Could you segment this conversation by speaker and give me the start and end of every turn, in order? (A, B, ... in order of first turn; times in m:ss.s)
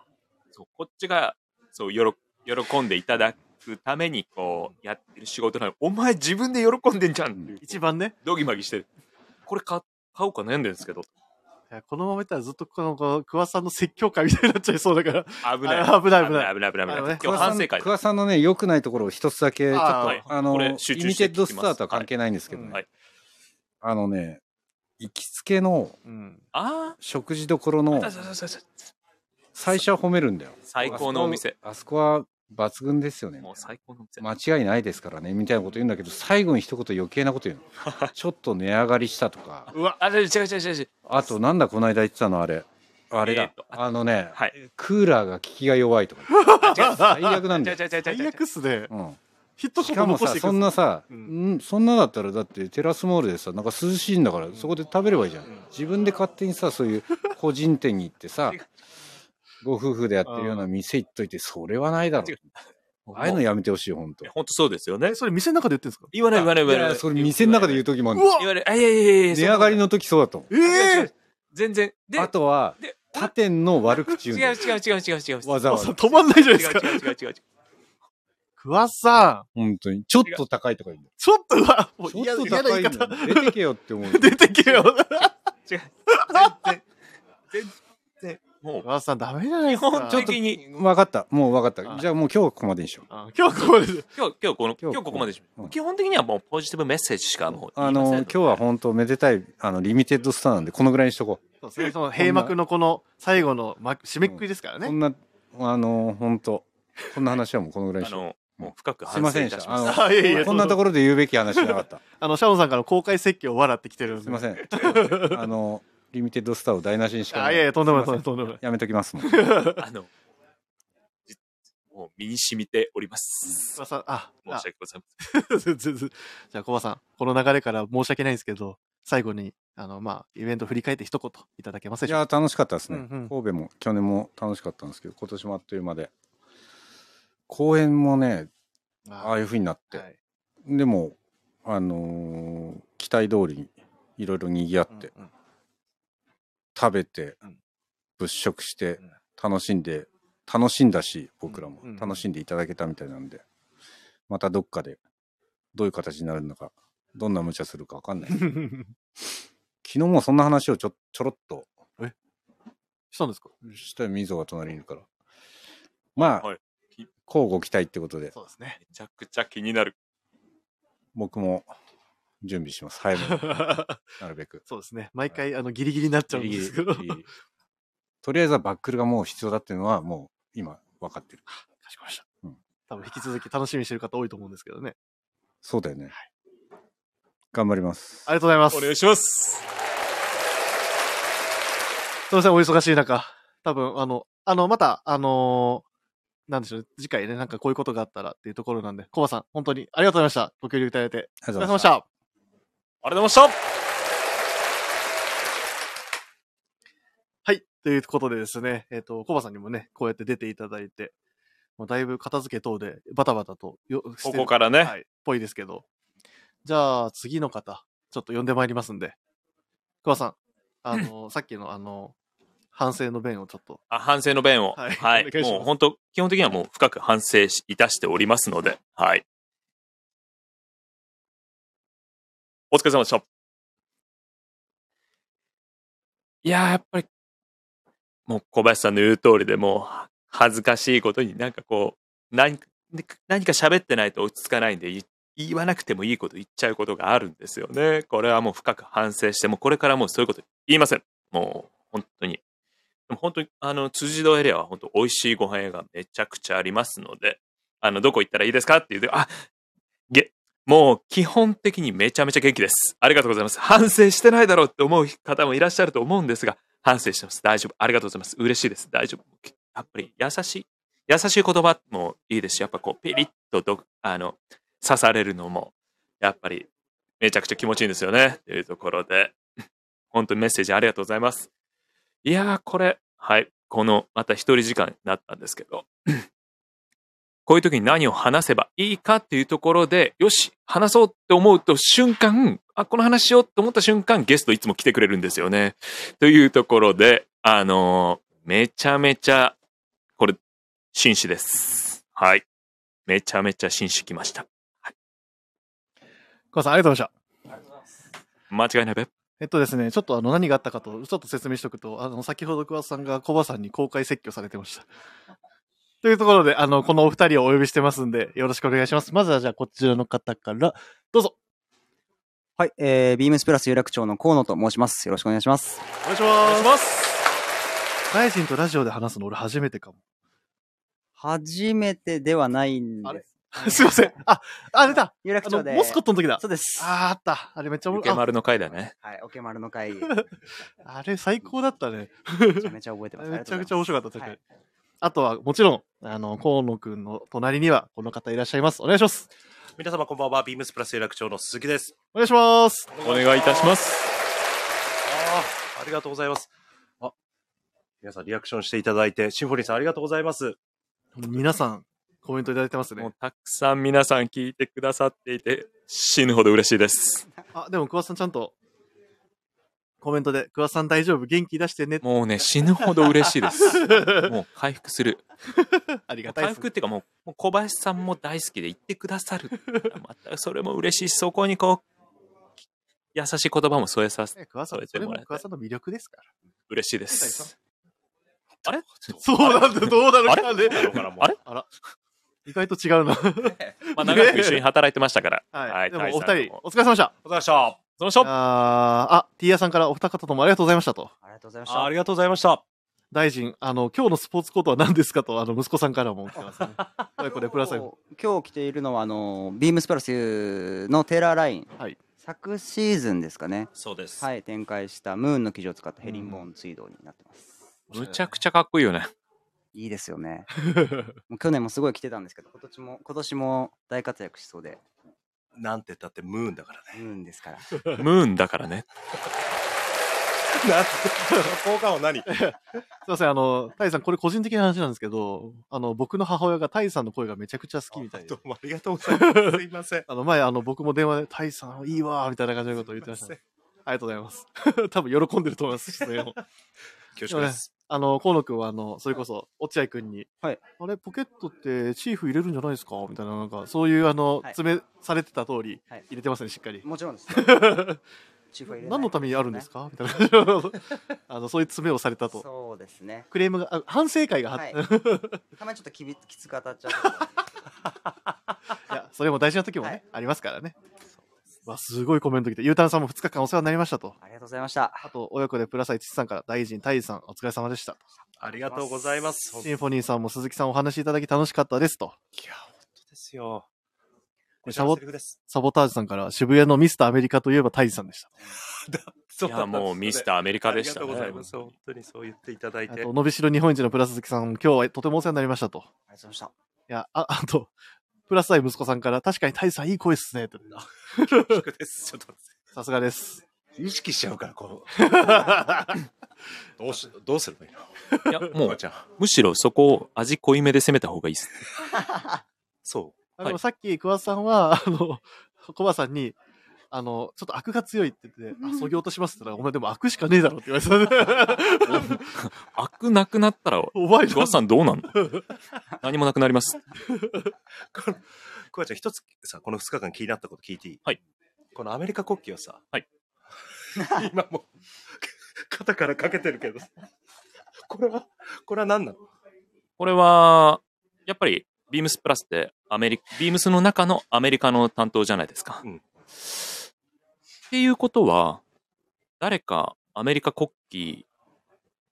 0:00.5-0:08.9 A
0:07.6-0:08.1 B
0:09.5-0:11.1 A
0:11.7-0:17.6 B
0:15.4-0:17.9 A
0:17.2-0:22.8 C
0:19.7-0:20.2 B
0:20.0-0:22.1 A
0:22.5-0:22.8 B
0:23.8-0:24.4 C
0:25.0-0:26.0 C
0:26.0-0:26.4 B
0:26.5-0:27.0 A
0:27.0-0:28.1 C
0:27.9-0:28.7 A
0:29.5-0:33.6 C
0:30.6-0:31.6 A
0:33.4-0:34.2 A
0:34.2-0:39.7 C
0:37.8-0:38.1 A
0:39.8-0:41.0 A
0:41.0-0:47.8 C
0:43.2-0:43.8 A
0:46.3-0:47.4 B
0:46.6-0:48.4 A
0:48.0-0:48.9 B
0:48.9-0:49.2 C
0:49.6-0:51.3 B
0:49.8-0:58.6 C
0:59.6-1:02.4 C
1:00.2-1:00.7 B
1:02.2-1:02.5 A
1:03.1-1:03.4 A
1:03.1-1:04.3 C
1:04.2-1:05.2 A
1:05.1-1:06.1 B
1:06.1-1:09.8 A
1:06.3-1:08.4 C
1:08.1-1:08.4 B
1:09.3-1:10.5 C
1:10.5-1:11.1 B
1:10.6-1:13.3 A
1:12.1-1:14.7 C
1:13.9-1:17.4 A
1:15.4-1:16.1 C
1:15.7-1:17.1 B
1:18.6-1:19.4 B
1:19.5-1:21.1 C
1:21.2-1:25.3 B
1:22.0-1:24.4 C
1:25.7-1:26.8 A
1:26.1-1:26.8 B
1:27.5-1:28.9 A
1:28.8-1:30.3 B
1:29.7-1:30.6 A
1:30.1-1:33.0 C
1:31.8-1:32.1 B
1:33.1-1:34.1 B
1:34.2-1:38.6 A
1:34.8-1:35.7 C
1:37.6-1:41.4 C
1:41.6-1:45.0 B
1:42.2-1:42.6 C
1:44.2-1:52.0 C
1:48.0-1:50.6 A
1:49.8-1:50.8 B
1:51.7-1:55.5 B
1:54.1-1:59.5 C
1:57.3-1:58.6 B
1:59.2-1:59.8 B
1:59.8-2:00.1 A
2:01.9-2:03.8 A
2:03.8-2:04.6 B
2:04.4-2:05.0 A
2:05.2-2:12.2 B
2:12.0-2:16.1 C
2:12.9-2:13.3 B
2:17.5-2:18.5 C
2:19.1-2:19.3 B
2:19.2-2:20.1 C
2:20.6-2:25.1 C
2:24.9-2:25.3 B
2:26.7-2:27.4 C
2:28.2-2:33.4 C
2:31.5-2:32.2 B
2:34.3-2:35.0 C
2:35.7-2:38.5 C
2:38.3-2:38.8 B
2:39.8-2:41.7 C
2:43.1-2:43.5 B
2:43.6-2:45.0 C
2:46.2-2:46.5 C
2:46.2-2:47.0 A
2:47.2-2:48.3 C
2:48.3-2:48.8 B
2:48.8-2:49.9 A
2:51.1-2:51.7 C
2:52.4-2:54.6 C
2:53.2-2:54.0 B
2:54.7-2:57.2 B
2:56.3-2:57.3 C
2:58.2-3:01.4 C
3:01.5-3:02.2 B
3:02.9-3:05.0 B
3:05.6-3:06.1 C
3:07.5-3:08.3 C
3:08.3-3:08.9 B
3:08.7-3:09.6 A
3:12.3-3:15.8 B
3:16.5-3:22.0 B
3:21.4-3:22.0 C
3:23.0-3:23.5 A
3:27.4-3:31.1 B
3:31.8-3:35.8 B
3:34.2-3:34.9 A
3:36.6-3:39.2 B
3:40.0-3:42.1 B
3:42.7-3:43.8 B
3:43.9-3:49.2 A
3:44.8-3:45.7 B
3:52.7-3:53.2 A
3:56.4-3:57.0 A
3:58.3-4:12.4 A
4:13.1-4:19.4 A
4:20.1-4:36.7 A
4:37.2-4:39.4 A
4:40.1-4:41.5 A
4:42.2-4:46.2 A
4:47.4-4:59.6 A
5:00.9-5:02.4 A
5:03.1-5:04.9 A
5:06.5-5:07.1 B
5:08.5-5:09.1 A
5:09.4-5:14.9 B
5:16.0-5:21.4 B
5:22.6-5:25.9 D
5:26.0-5:26.7 B
5:26.4-5:27.2 A
5:28.1-5:30.0 B
5:31.2-5:34.1 D
5:33.0-5:38.2 B
5:34.9-5:37.0 D
5:37.9-5:38.9 A
5:39.0-5:40.2 D
5:40.8-5:44.4 B
5:42.5-5:44.4 D
5:45.0-5:49.3 B
5:49.8-5:51.9 E
5:52.1-5:52.9 B
5:52.9-5:53.8 E
5:53.0-5:54.1 A
5:55.0-5:57.1 E
5:58.0-6:00.6 E
6:01.2-6:03.1 B
6:03.0-6:07.2 A
6:07.5-6:08.5 B
6:10.0-6:12.0 B
6:12.0-6:15.2 A
6:13.4-6:14.3 B
6:15.6-6:16.6 B
6:16.3-6:21.8 A
6:23.1-6:25.4 A
6:24.4-6:26.3 B
6:26.7-6:27.5 A
6:27.1-6:27.5 B
6:28.9-6:29.2 E
6:29.2-6:31.7 B
6:29.4-6:31.4 A
6:30.6-6:31.3 E
6:32.4-6:34.6 B
6:33.9-6:36.6 A
6:35.5-6:37.1 B
6:37.2-6:37.9 E
6:38.0-6:38.3 A
6:38.2-6:41.1 B
6:41.2-6:41.9 D
6:41.6-6:42.6 E
6:43.1-6:47.9 B
6:47.6-6:57.8 D
6:53.7-6:54.3 E
6:56.0-6:56.5 B
6:57.9-6:58.4 B
6:57.9-6:59.1 A
6:59.7-7:00.5 D
7:00.6-7:01.1 B
7:01.3-7:04.8 D
7:05.5-7:07.0 E
7:06.9-7:07.7 D
7:07.9-7:08.9 A
7:10.5-7:12.3 E
7:11.3-7:11.5 B
7:12.2-7:18.4 B
7:17.9-7:20.0 E
7:19.0-7:23.3 B
7:23.0-7:23.4 E
7:23.8-7:26.4 B
7:27.1-7:27.7 E
7:27.3-7:38.0 B
7:36.8-7:37.8 D
7:38.5-7:39.7 D
7:38.7-7:42.4 B
7:42.3-7:43.3 D
7:43.3-7:45.4 B
7:44.5-7:44.8 D
7:45.5-7:47.5 D
7:48.8-7:50.8 B
7:51.6-7:54.2 B
7:54.2-7:55.1 D
7:55.0-7:58.0 B
7:58.4-7:59.8 E
7:59.6-8:02.2 B
8:02.3-8:03.6 E
8:04.6-8:08.3 B
8:04.6-8:05.4 E
8:08.7-8:13.1 E
8:09.4-8:11.7 A
8:12.9-8:15.9 B
8:16.1-8:16.5 D
8:16.9-8:17.7 B
8:18.3-8:20.6 B
8:20.7-8:22.5 E
8:21.2-8:21.6 B
8:22.7-8:23.4 B
8:23.8-8:25.1 E
8:25.0-8:26.0 B
8:26.8-8:27.9 E
8:28.1-8:28.4 B
8:28.3-8:31.6 A
8:28.6-8:29.1 E
8:32.8-8:33.3 E
8:33.4-8:36.4 B
8:36.9-8:42.2 B
8:41.8-8:45.4 A
8:43.9-8:44.6 B
8:45.1-8:45.4 B
8:46.0-8:46.8 A
8:47.1-8:47.5 B
8:47.9-8:51.0 E
8:51.7-8:52.8 E
8:53.9-8:54.7 E
8:55.2-8:56.9 E
8:57.9-8:59.2 E
9:00.0-9:05.8 A
9:07.7-9:08.6 A
9:09.4-9:11.2 A